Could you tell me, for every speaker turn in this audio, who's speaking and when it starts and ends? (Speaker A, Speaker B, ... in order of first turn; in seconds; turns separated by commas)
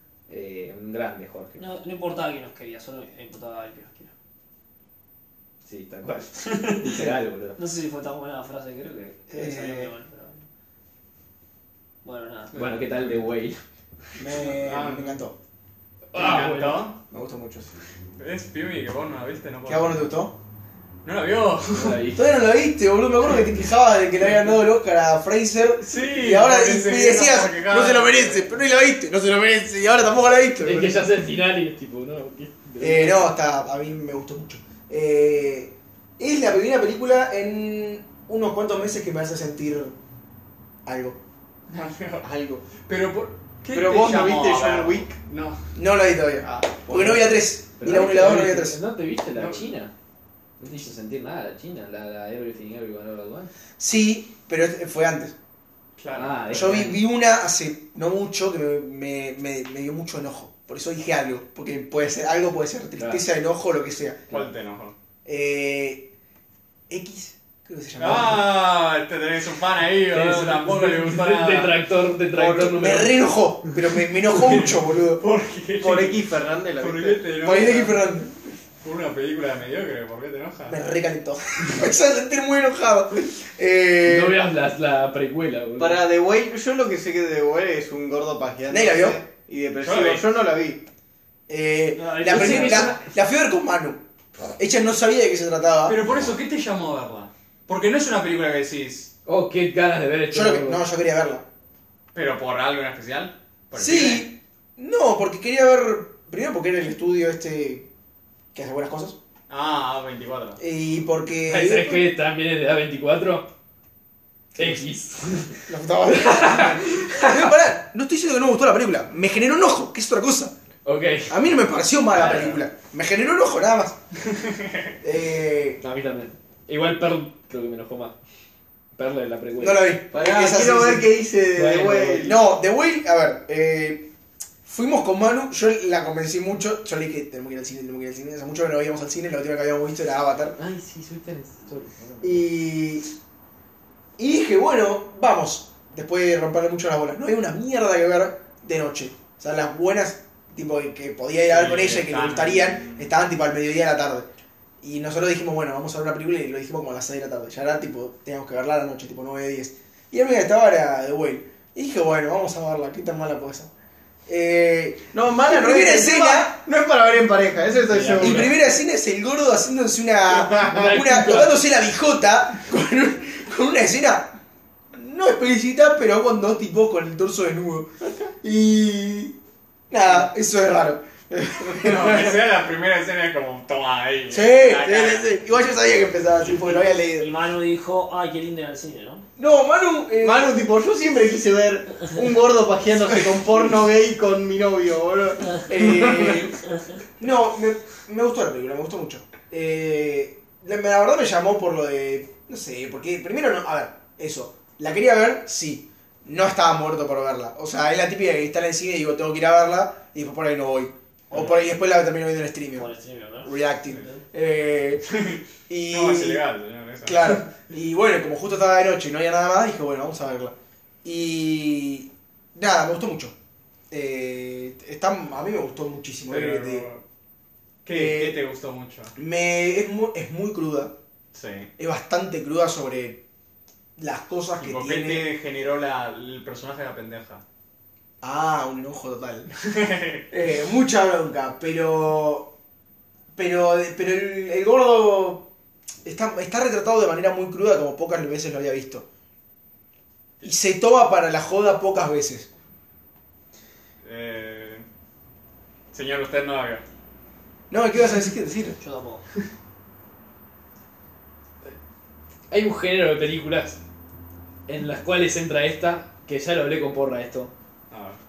Speaker A: 0.3-1.7, Speaker B: 1.6-4.1, Speaker A: 5.7-7.6, Speaker B: 6.4-6.8, Speaker B: 7.6-10.4, Speaker C: 9.3-9.9, Speaker B: 12.0-12.7, Speaker A: 12.5-13.6, Speaker D: 12.6-12.9, Speaker C: 14.2-15.3, Speaker D: 14.5-15.2, Speaker A: 16.1-16.9, Speaker D: 16.1-17.0, Speaker C: 16.2-16.5, Speaker C: 17.1-17.8, Speaker D: 18.2-20.1, Speaker C: 19.7-20.4, Speaker D: 21.0-22.0, Speaker A: 21.7-22.3, Speaker C: 22.1-31.1, Speaker D: 25.8-28.5, Speaker A: 30.6-33.3, Speaker C: 32.8-40.0, Speaker C: 40.9-41.2, Speaker D: 41.7-45.6, Speaker E: 42.2-42.6, Speaker E: 43.7-45.1, Speaker C: 45.8-48.8, Speaker D: 46.4-46.8, Speaker A: 46.9-49.9, Speaker D: 49.4-49.7, Speaker A: 50.6-53.5, Speaker C: 53.8-55.4, Speaker D: 56.0-56.6, Speaker A: 56.1-57.0, Speaker C: 56.5-64.5, Speaker A: 63.0-63.2, Speaker D: 64.3-64.9, Speaker C: 65.2-66.1, Speaker C: 66.9-68.5, Speaker D: 68.0-71.8, Speaker A: 70.1-73.3, Speaker C: 72.3-75.2, Speaker D: 74.3-78.2, Speaker E: 75.8-77.2, Speaker C: 77.4-78.3, Speaker D: 78.8-80.8, Speaker C: 80.7-84.4, Speaker A: 84.0-86.0, Speaker E: 85.8-90.8, Speaker C: 88.7-89.2, Speaker D: 89.8-90.2, Speaker C: 91.5-94.0, Speaker B: 92.0-92.9, Speaker A: 92.2-93.0, Speaker C: 94.5-96.0, Speaker D: 95.8-99.1, Speaker A: 99.3-100.8, Speaker C: 100.3-101.5, Speaker D: 102.1-104.3, Speaker C: 103.8-107.9, Speaker C: 108.5-109.2, Speaker D: 109.5-110.6, Speaker C: 110.6-112.0, Speaker A: 111.5-113.5, Speaker A: 114.5-117.5, Speaker C: 114.6-114.8, Speaker C: 115.7-120.5, Speaker A: 120.8-121.4, Speaker C: 121.3-124.0, Speaker D: 122.2-122.6, Speaker C: 125.0-125.8, Speaker A: 125.8-128.2, Speaker A: 129.0-129.9, Speaker C: 129.6-131.1, Speaker E: 130.1-132.4, Speaker A: 131.6-132.3, Speaker C: 132.2-134.1, Speaker C: 134.7-140.6, Speaker A: 140.6-142.5, Speaker C: 142.2-143.1, Speaker C: 144.2-154.3, Speaker D: 151.5-153.1, Speaker C: 154.8-163.7, Speaker C: 164.3-166.6, Speaker E: 165.1-168.5, Speaker A: 167.9-168.6, Speaker C: 168.2-174.4, Speaker A: 170.5-171.6, Speaker C: 174.9-177.9, Speaker C: 178.4-179.3, Speaker C: 179.9-182.0, Speaker E: 181.6-181.9, Speaker D: 181.7-185.4, Speaker C: 184.3-187.3, Speaker B: 186.6-189.3, Speaker C: 189.4-190.5, Speaker E: 190.2-196.5, Speaker C: 195.7-196.6, Speaker C: 197.2-212.9, Speaker B: 212.8-214.2, Speaker C: 213.4-215.2, Speaker D: 215.1-217.5, Speaker C: 215.7-216.4, Speaker C: 217.1-223.3, Speaker C: 223.9-226.9, Speaker D: 226.3-227.0, Speaker D: 227.8-229.1, Speaker C: 227.9-228.4, Speaker C: 229.2-230.9, Speaker D: 231.3-231.7, Speaker C: 231.8-233.2, Speaker C: 234.0-235.3, Speaker D: 234.6-237.4, Speaker C: 238.2-239.6, Speaker D: 239.7-240.2, Speaker C: 240.3-242.5, Speaker C: 243.4-245.5, Speaker C: 246.1-249.1, Speaker C: 250.4-252.5, Speaker D: 254.0-254.8, Speaker D: 255.9-256.8, Speaker C: 257.7-258.8, Speaker B: 258.8-259.2, Speaker A: 262.5-263.8, Speaker A: 264.7-267.5, Speaker D: 267.9-268.2